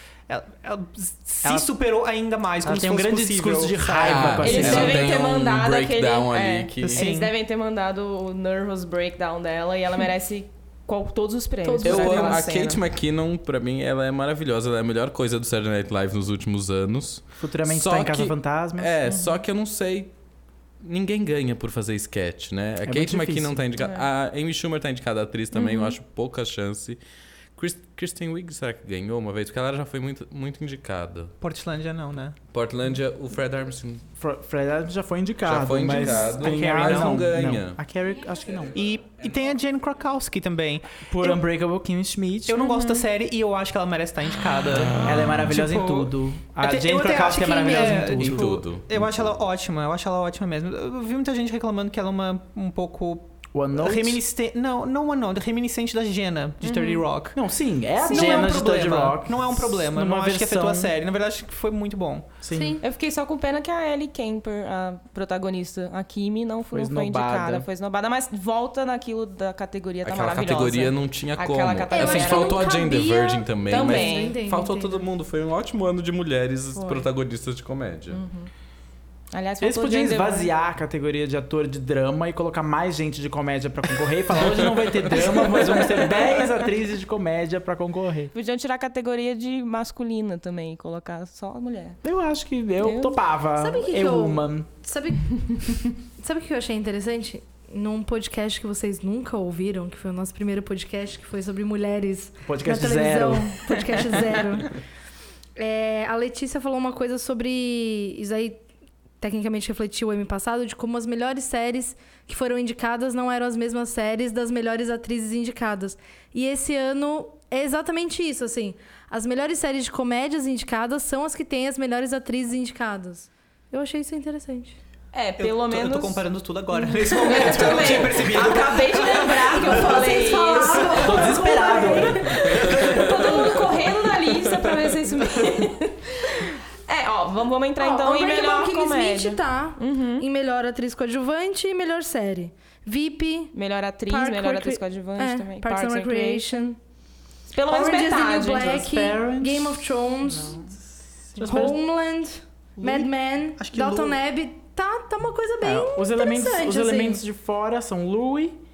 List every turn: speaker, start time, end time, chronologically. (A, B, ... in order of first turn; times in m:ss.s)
0:00.3-0:05.0 A
0:01.4-0:01.7 B
0:02.6-0:05.1 B
0:04.0-0:07.0 C
0:04.4-0:12.8 D
0:06.8-0:07.3 A
0:11.6-0:12.5 E
0:11.8-0:20.1 C
0:17.4-0:19.0 B
0:19.1-0:19.4 D
0:20.8-0:27.0 C
0:22.8-0:23.7 B
0:23.8-0:24.1 D
0:25.5-0:26.0 D
0:27.6-0:31.3 C
0:31.4-0:32.4 A
0:32.5-0:34.0 C
0:34.2-0:38.8 B
0:35.4-0:37.8 C
0:36.4-0:37.2 A
0:38.8-0:41.4 A
0:41.1-0:42.7 B
0:42.5-0:57.4 A
0:45.0-0:48.6 B
0:47.5-0:47.9 E
0:48.1-0:49.3 C
0:53.5-0:54.2 B
0:56.6-0:57.0 D
0:57.3-1:00.9 B
0:58.0-0:58.4 D
0:58.0-1:02.4 A
1:02.4-1:02.8 B
1:02.5-1:02.8 E
1:02.8-1:12.6 D
1:06.7-1:07.7 B
1:10.0-1:18.2 C
1:11.9-1:15.1 E
1:13.7-1:14.4 D
1:16.8-1:17.1 D
1:18.1-1:18.5 D
1:19.3-1:20.5 D
1:19.6-1:28.3 B
1:28.3-1:32.0 D
1:32.0-1:34.7 B
1:32.8-1:33.2 D
1:33.6-1:44.8 E
1:42.4-1:44.4 B
1:45.6-1:48.6 E
1:49.2-2:04.8 E
2:05.1-2:06.2 D
2:05.4-2:10.1 A
2:07.2-2:11.2 D
2:09.6-2:12.8 E
2:10.9-2:12.8 B
2:12.4-2:20.3 D
2:17.8-2:23.6 E
2:23.5-2:26.7 D
2:24.1-2:26.8 E
2:27.5-2:28.9 D
2:27.7-2:30.6 E
2:28.7-2:30.7 B
2:31.4-2:31.8 B
2:31.4-2:37.2 E
2:32.8-2:34.2 A
2:35.6-2:38.6 B